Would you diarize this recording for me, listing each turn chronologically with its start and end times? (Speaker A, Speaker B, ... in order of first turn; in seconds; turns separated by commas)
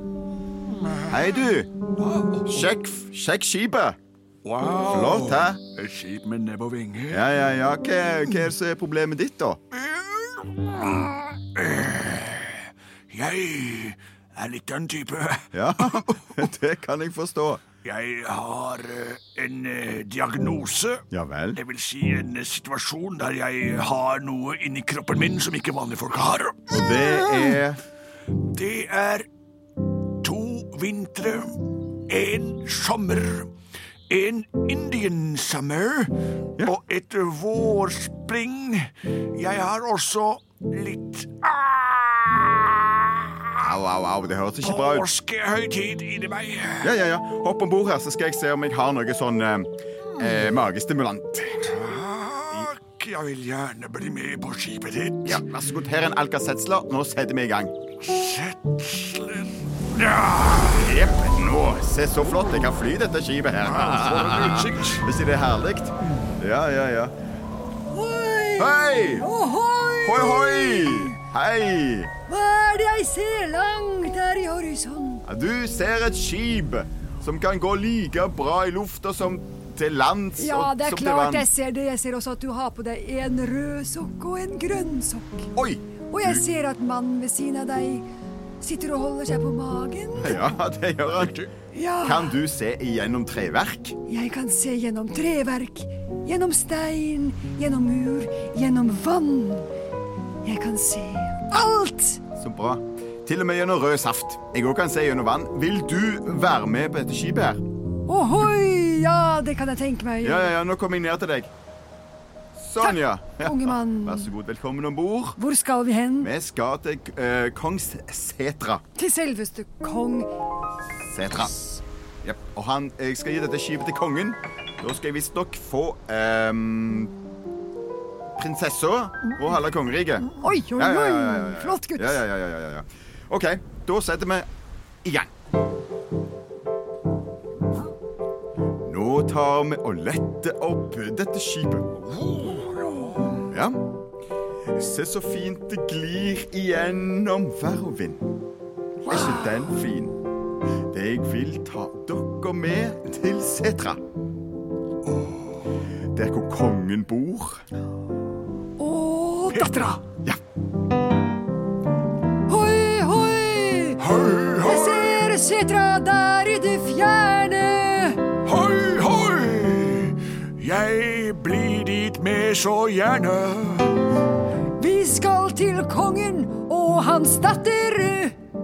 Speaker A: 0.8-1.1, Speaker B: 1.1-1.7, Speaker A: 2.0-2.6, Speaker B: 2.5-4.0, Speaker A: 4.4-7.2, Speaker B: 4.9-5.6, Speaker B: 7.1-9.6, Speaker A: 9.7-16.5, Speaker B: 15.5-17.6, Speaker A: 17.8-27.6, Speaker B: 21.1-21.6, Speaker B: 26.7-27.8, Speaker A: 28.4-29.3, Speaker A: 30.2-33.5, Speaker A: 34.1-43.7, Speaker B: 43.6-45.1, Speaker A: 44.6-46.9, Speaker B: 46.8-51.9, Speaker A: 51.6-55.4, Speaker B: 55.2-57.7, Speaker A: 58.0-60.9, Speaker B: 60.8-67.1, Speaker A: 63.6-65.1, Speaker C: 67.9-71.1, Speaker B: 68.6-69.3, Speaker B: 70.0-72.1, Speaker C: 72.3-75.2, Speaker B: 75.2-81.5, Speaker C: 80.4-85.5, Speaker B: 85.5-86.4, Speaker C: 86.1-88.1, Speaker C: 88.6-90.4, Speaker B: 90.2-91.4, Speaker A: 91.1-91.5, Speaker C: 91.7-92.3, Speaker B: 92.0-94.0, Speaker C: 94.0-99.7, Speaker C: 100.4-102.2, Speaker B: 102.3-107.6, Speaker C: 108.0-110.5, Speaker B: 110.2-111.5, Speaker B: 112.5-115.4, Speaker C: 112.8-114.3, Speaker C: 115.4-116.3, Speaker B: 116.2-118.8, Speaker C: 119.0-120.3, Speaker B: 121.0-121.5, Speaker B: 122.2-127.1, Speaker B: 128.4-134.5, Speaker C: 130.4-132.2, Speaker B: 135.0-135.3, Speaker B: 138.8-141.9, Speaker A: 142.1-143.3, Speaker B: 143.5-143.8, Speaker B: 144.7-148.2, Speaker B: 149.0-150.2, Speaker B: 150.9-154.0, Speaker B: 156.1-157.6, Speaker C: 158.8-159.9, Speaker A: 159.5-160.0, Speaker C: 162.5-164.0, Speaker A: 164.0-165.2, Speaker C: 164.6-168.2, Speaker A: 168.4-174.0, Speaker C: 174.8-178.3